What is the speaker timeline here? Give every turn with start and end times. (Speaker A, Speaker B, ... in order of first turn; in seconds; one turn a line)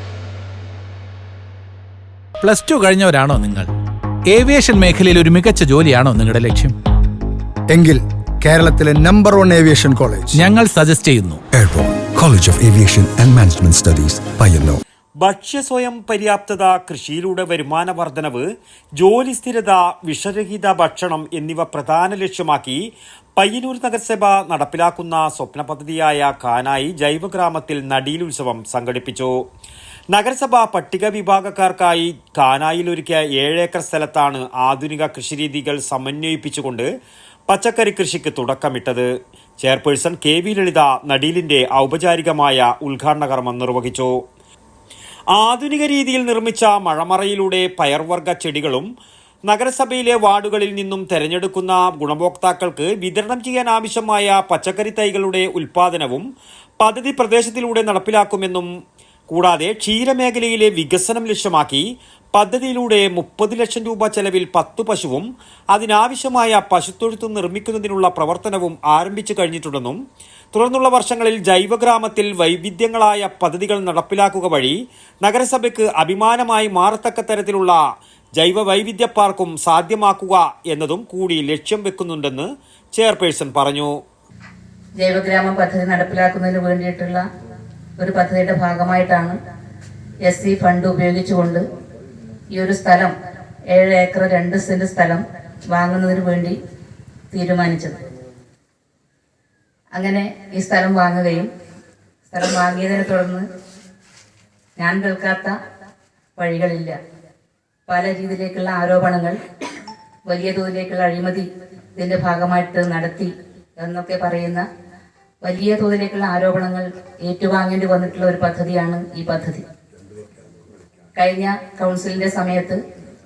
Speaker A: 2.4-3.7
Speaker A: 4.3-6.7
Speaker B: 7.7-10.3
Speaker A: 10.3-11.4
Speaker C: 11.5-14.8
Speaker D: 15.2-22.8
Speaker D: 23.4-29.3
Speaker D: 30.1-36.9
Speaker D: 37.5-39.1
Speaker D: 39.6-44.1
Speaker D: 45.3-48.9
Speaker D: 49.5-56.2
Speaker D: 56.8-58.7
Speaker D: 59.3-61.8
Speaker D: 62.4-70.0
Speaker D: 70.5-77.8
Speaker D: 78.4-84.0
Speaker E: 85.0-87.2
Speaker E: 88.0-89.3
Speaker E: 90.2-91.6
Speaker E: 92.5-93.1
Speaker E: 93.7-96.5
Speaker E: 97.3-98.0
Speaker E: 99.9-101.5
Speaker E: 102.3-103.4
Speaker E: 104.8-105.5
Speaker E: 106.4-107.0
Speaker E: 107.9-109.4
Speaker E: 110.3-111.4
Speaker E: 112.0-114.6
Speaker E: 115.4-119.6
Speaker E: 121.2-122.8